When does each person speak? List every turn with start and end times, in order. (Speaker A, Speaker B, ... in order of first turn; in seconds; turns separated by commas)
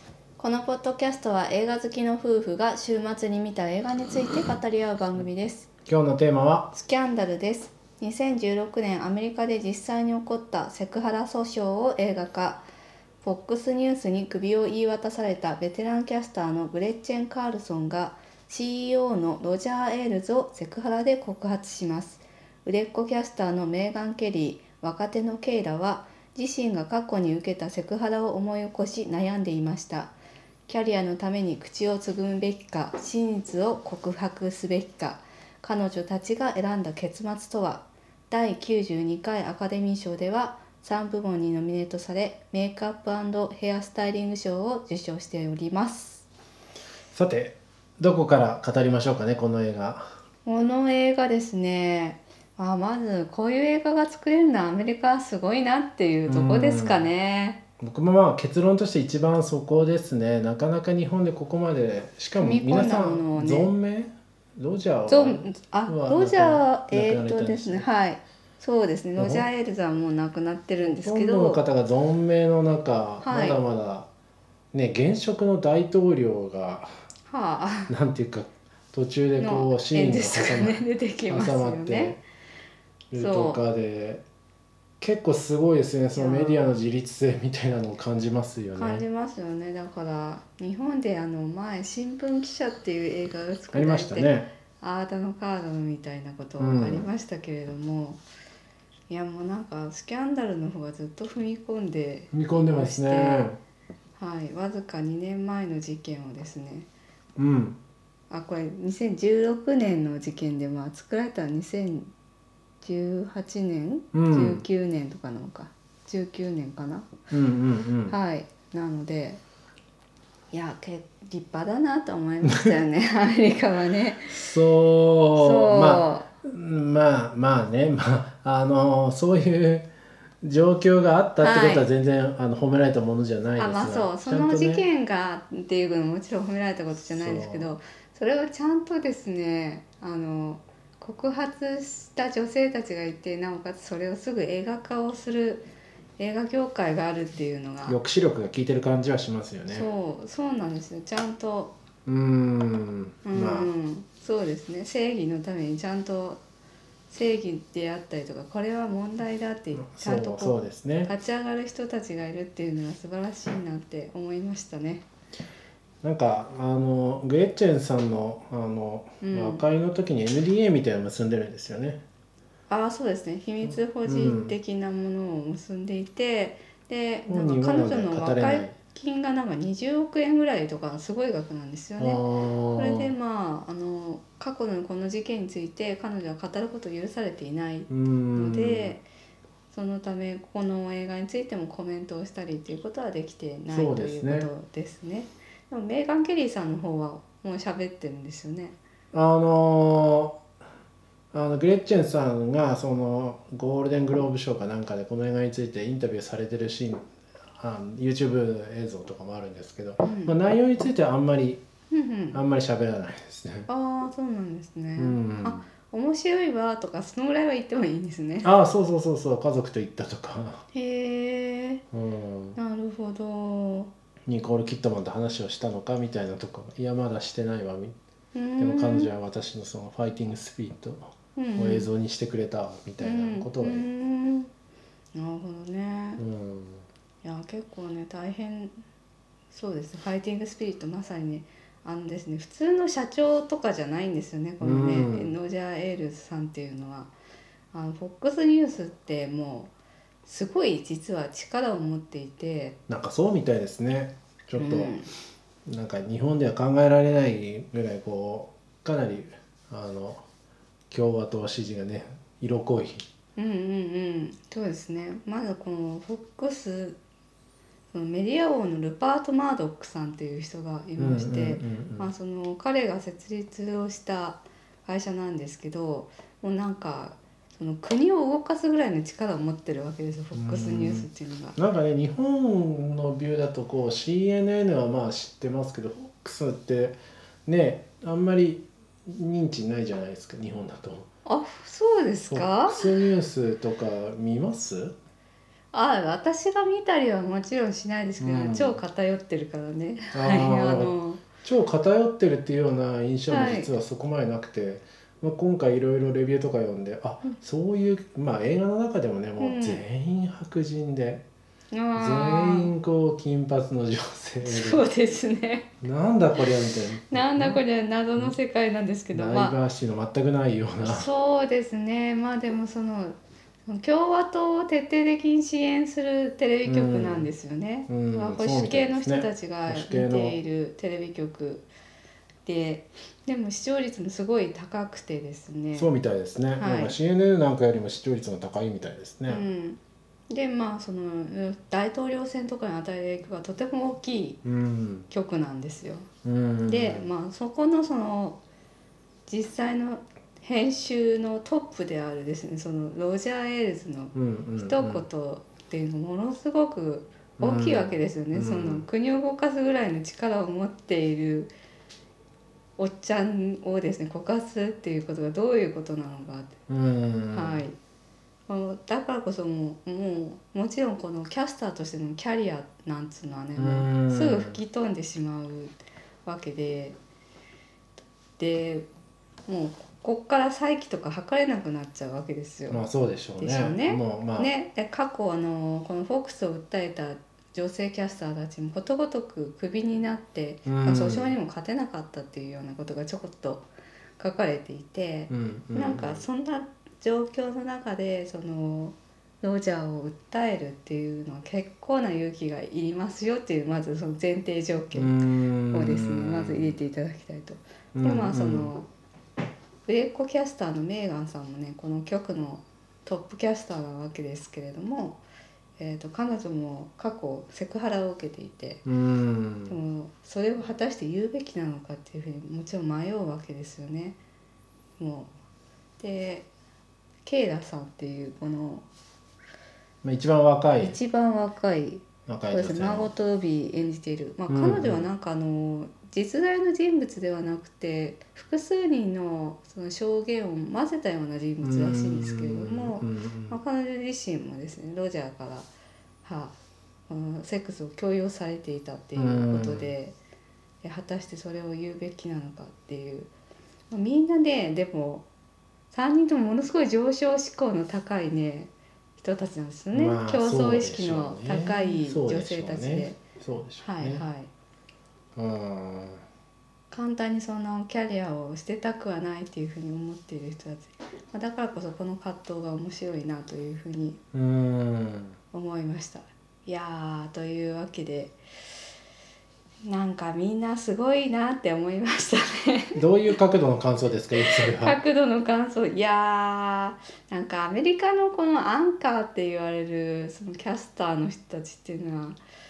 Speaker A: 0.4-5.7, Speaker B: 5.8-6.7, Speaker A: 6.7-12.6, Speaker A: 13.2-30.1, Speaker A: 30.7-46.2, Speaker B: 47.1-50.2, Speaker A: 50.4-57.6, Speaker B: 56.3-57.1, Speaker B: 57.8-67.9, Speaker A: 62.4-63.7, Speaker A: 65.1-71.6, Speaker B: 69.2-69.5, Speaker B: 71.0-74.1, Speaker A: 73.2-73.6, Speaker B: 74.7-76.9, Speaker A: 77.3-77.9, Speaker B: 77.9-82.2, Speaker A: 79.4-82.2, Speaker B: 83.1-84.2, Speaker A: 83.1-83.6, Speaker B: 85.0-89.0, Speaker A: 86.1-86.6, Speaker A: 88.8-98.2, Speaker B: 93.7-94.5, Speaker B: 96.6-97.1, Speaker A: 99.1-103.4, Speaker B: 102.3-103.6, Speaker A: 104.2-106.9, Speaker B: 107.4-107.8, Speaker A: 108.3-112.1, Speaker A: 112.8-117.1, Speaker B: 114.1-114.6, Speaker B: 117.3-118.2, Speaker A: 118.1-119.4, Speaker A: 120.5-124.5, Speaker B: 122.4-122.7, Speaker B: 124.3-129.9, Speaker A: 125.3-126.3, Speaker B: 130.4-134.8, Speaker A: 131.4-131.9, Speaker A: 133.6-145.7, Speaker B: 136.9-137.7, Speaker A: 146.2-148.0, Speaker B: 147.8-149.9, Speaker A: 149.7-151.8, Speaker B: 152.1-153.7, Speaker A: 153.2-156.4, Speaker A: 157.1-165.0, Speaker B: 159.7-161.1, Speaker B: 166.0-172.0, Speaker A: 169.2-169.6, Speaker A: 172.7-182.2, Speaker B: 174.0-174.5, Speaker B: 177.3-178.7, Speaker B: 182.0-183.1, Speaker A: 182.8-189.0, Speaker B: 187.9-188.9, Speaker A: 189.7-198.8, Speaker B: 193.7-194.5, Speaker B: 199.1-200.4, Speaker B: 201.3-211.6, Speaker A: 210.0-210.3, Speaker A: 211.9-212.4, Speaker B: 212.3-213.7, Speaker A: 213.7-218.5, Speaker B: 214.9-215.7, Speaker B: 218.4-220.6, Speaker A: 220.7-221.8, Speaker B: 221.9-222.6, Speaker A: 222.6-223.9, Speaker B: 224.3-227.9, Speaker A: 228.3-229.1, Speaker B: 228.6-233.8, Speaker A: 231.3-231.9, Speaker A: 233.0-234.5, Speaker A: 235.1-236.2, Speaker B: 236.2-236.8, Speaker A: 237.2-238.7, Speaker A: 239.5-247.1, Speaker B: 244.6-245.3, Speaker A: 247.7-249.7, Speaker A: 250.2-252.8, Speaker B: 252.9-255.0, Speaker A: 254.6-255.1, Speaker B: 255.7-260.2, Speaker B: 260.9-263.1, Speaker A: 263.4-267.0, Speaker A: 267.9-281.6, Speaker B: 271.0-272.1, Speaker B: 280.3-291.1, Speaker A: 291.2-293.0, Speaker B: 292.3-294.9, Speaker A: 295.7-301.2, Speaker B: 298.2-298.8, Speaker B: 300.1-311.2, Speaker A: 303.3-303.7, Speaker A: 309.4-309.8, Speaker A: 311.7-312.7, Speaker B: 311.9-314.9, Speaker A: 314.4-315.7, Speaker B: 315.8-317.6, Speaker A: 317.1-319.6, Speaker B: 319.1-321.1, Speaker A: 320.8-331.6, Speaker B: 326.6-327.3, Speaker B: 327.9-330.4, Speaker A: 332.4-335.9, Speaker B: 335.7-339.4, Speaker A: 336.6-336.9, Speaker A: 339.3-344.4, Speaker B: 344.4-345.1, Speaker A: 345.1-346.1, Speaker B: 346.2-347.1, Speaker A: 346.6-348.4, Speaker A: 349.3-361.5, Speaker B: 354.1-355.0, Speaker B: 357.4-358.9, Speaker A: 362.8-366.5, Speaker B: 366.7-367.6, Speaker A: 367.3-367.8, Speaker A: 368.5-376.9, Speaker B: 373.6-374.6, Speaker A: 378.4-378.9, Speaker A: 379.4-382.8, Speaker B: 382.7-384.5, Speaker A: 383.4-393.6, Speaker B: 390.6-391.3, Speaker A: 394.2-405.2, Speaker B: 395.3-396.2, Speaker B: 404.9-406.8, Speaker A: 405.7-408.9, Speaker B: 407.9-408.7, Speaker A: 409.9-415.2, Speaker A: 415.8-418.8, Speaker B: 418.8-419.8, Speaker A: 419.7-424.2, Speaker A: 425.0-425.3, Speaker A: 426.0-426.5, Speaker A: 427.2-428.9, Speaker B: 430.0-431.0, Speaker A: 430.8-445.7, Speaker B: 432.2-433.1, Speaker B: 434.5-435.1, Speaker B: 441.6-443.6, Speaker A: 446.2-446.5, Speaker A: 447.1-450.1, Speaker B: 449.2-449.9, Speaker A: 450.8-453.3, Speaker A: 453.9-455.2, Speaker A: 455.9-463.2, Speaker B: 459.9-464.2, Speaker A: 463.8-464.5, Speaker B: 465.4-466.2, Speaker A: 466.9-474.2, Speaker B: 474.3-475.4, Speaker A: 475.5-478.4, Speaker A: 479.8-483.0, Speaker B: 482.9-485.0, Speaker A: 484.3-492.4